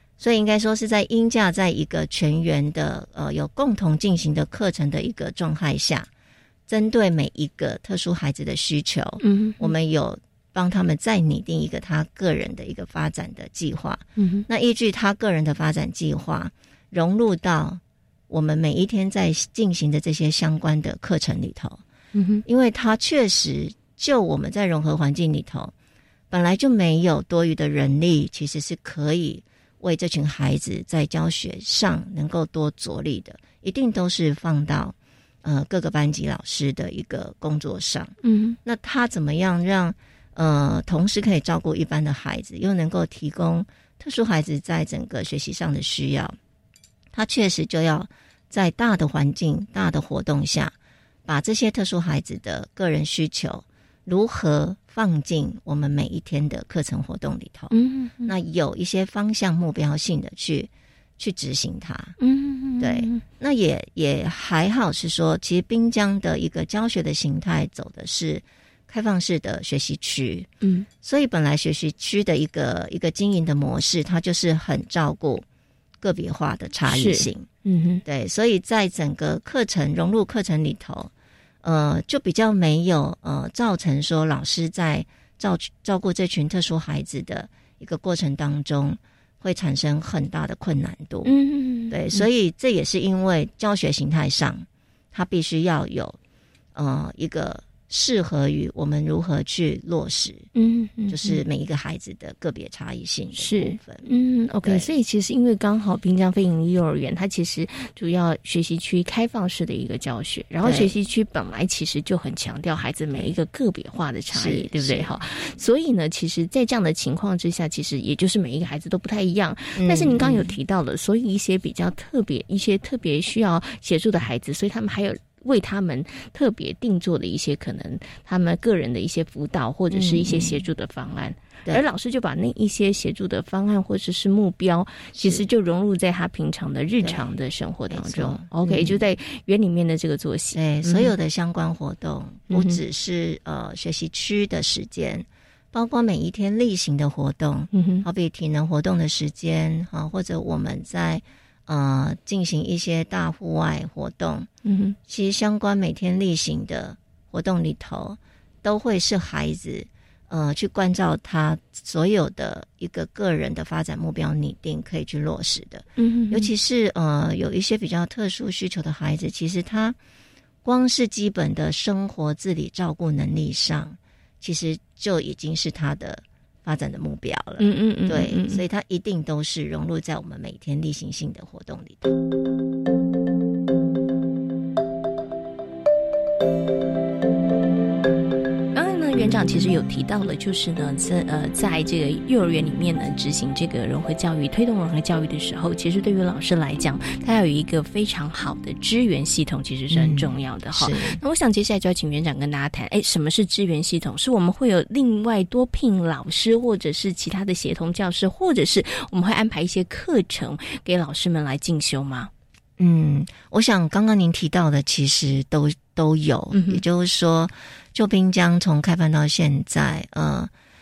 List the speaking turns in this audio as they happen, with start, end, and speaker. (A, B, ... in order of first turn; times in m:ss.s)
0:00.2-0:06.1 A
0:06.7-0:21.8 A
0:09.2-0:09.7 B
0:14.2-0:14.5 B
0:22.2-0:22.4 B
0:22.5-0:25.7 A
0:26.3-0:38.1 A
0:38.2-0:38.6 B
0:38.6-0:46.4 A
0:47.1-0:50.7 A
0:51.3-0:57.7 A
0:57.7-0:58.3 B
0:58.2-1:02.2 A
1:02.2-1:03.2 B
1:02.8-1:10.5 A
1:10.6-1:10.9 B
1:11.0-1:15.4 A
1:16.0-1:17.5 A
1:16.9-1:18.0 B
1:18.0-1:21.1 A
1:21.6-1:31.3 A
1:31.2-1:32.3 B
1:31.9-1:36.2 A
1:36.8-1:40.5 A
1:40.6-1:41.4 B
1:41.1-1:44.1 A
1:43.4-2:21.1 B
1:44.6-1:44.9 A
1:50.6-1:50.9 A
1:54.3-1:55.1 A
1:59.8-2:00.6 A
2:09.9-2:10.6 A
2:15.2-2:15.4 A
2:17.9-2:19.0 A
2:20.6-2:34.5 A
2:22.5-2:22.8 B
2:27.7-2:28.1 B
2:34.6-2:35.0 B
2:35.1-2:50.0 A
2:46.0-2:46.5 B
2:50.6-3:02.1 A
2:57.6-2:58.6 B
3:08.7-3:32.3 B
3:19.9-3:21.2 A
3:32.8-3:40.5 A
3:36.5-3:36.8 B